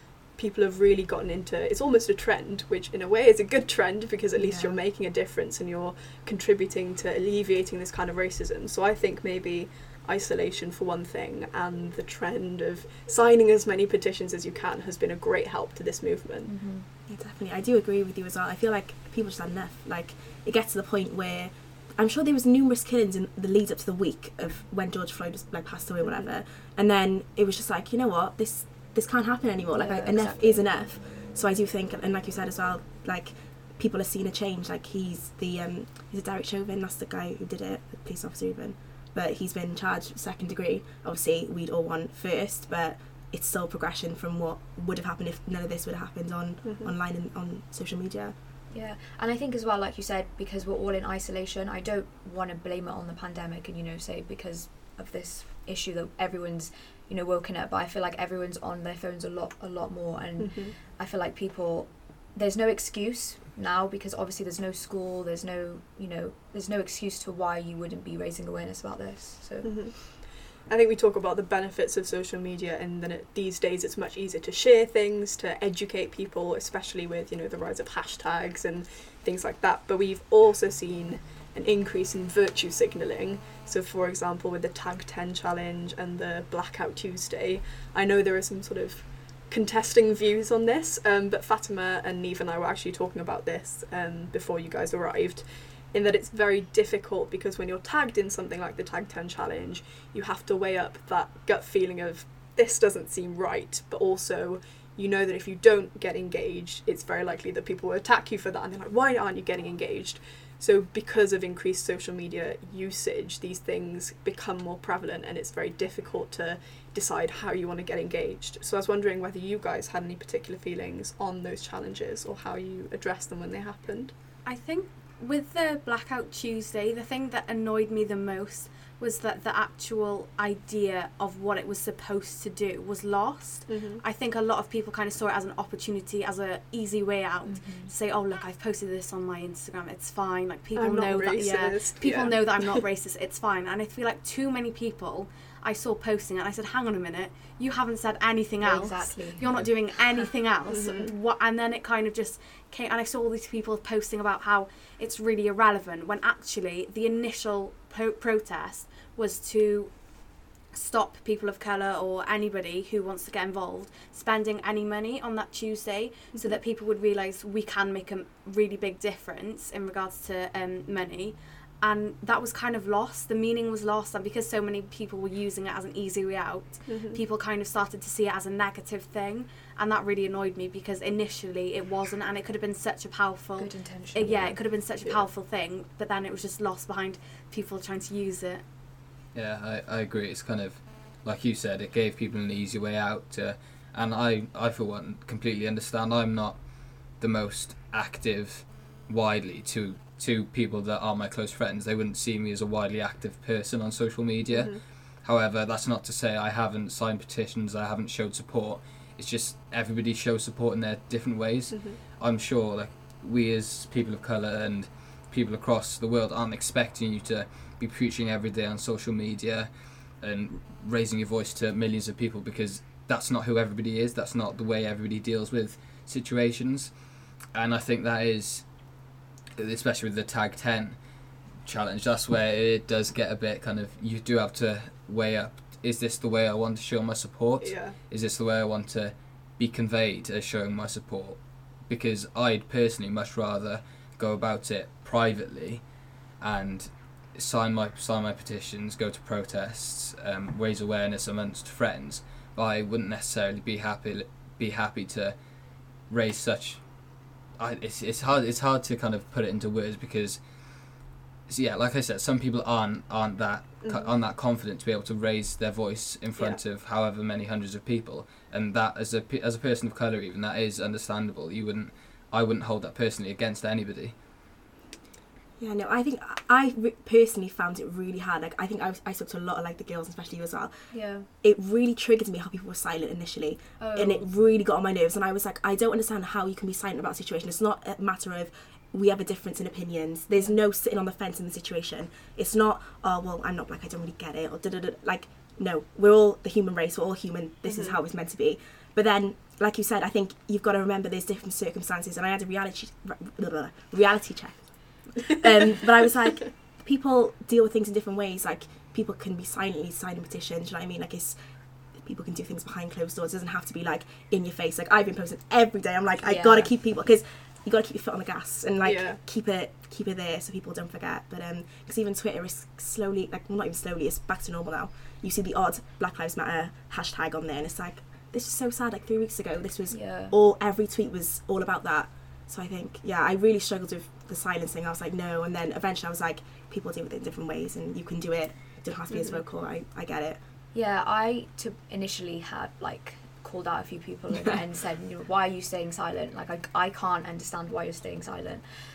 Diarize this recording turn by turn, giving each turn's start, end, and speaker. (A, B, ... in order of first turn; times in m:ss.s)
0:00.4-0:16.5 A
0:04.4-0:04.8 B
0:16.5-0:16.9 C
0:17.1-0:48.4 B
0:26.0-0:26.3 A
0:29.7-0:30.6 C
0:46.6-0:47.0 A
0:48.7-1:09.8 C
1:00.4-1:00.8 A
1:09.6-2:04.1 A
2:04.4-2:39.9 D
2:13.7-2:14.0 A
2:17.5-2:17.9 C
2:20.8-2:22.8 A
2:28.6-2:29.4 C
2:30.7-2:31.1 A
2:40.7-3:08.6 D
2:56.9-2:57.2 A
3:03.6-3:04.6 C
3:09.3-3:39.7 E
3:24.5-3:24.8 A
3:31.7-3:32.0 A
3:40.2-3:46.9 E
3:47.5-3:48.7 E
3:49.6-3:51.0 E
3:51.6-4:05.8 E
3:57.6-3:58.0 A
4:06.4-4:15.4 E
4:16.1-4:16.8 E
4:17.6-4:20.4 E
4:21.5-4:34.1 E
4:23.8-4:24.1 A
4:35.6-5:40.4 B
4:40.9-4:41.3 C
4:43.8-4:44.3 C
4:57.7-4:58.0 A
5:16.2-5:16.7 C
5:18.8-5:19.2 A
5:29.9-5:30.4 C
5:39.1-5:39.4 A
5:40.7-5:48.6 C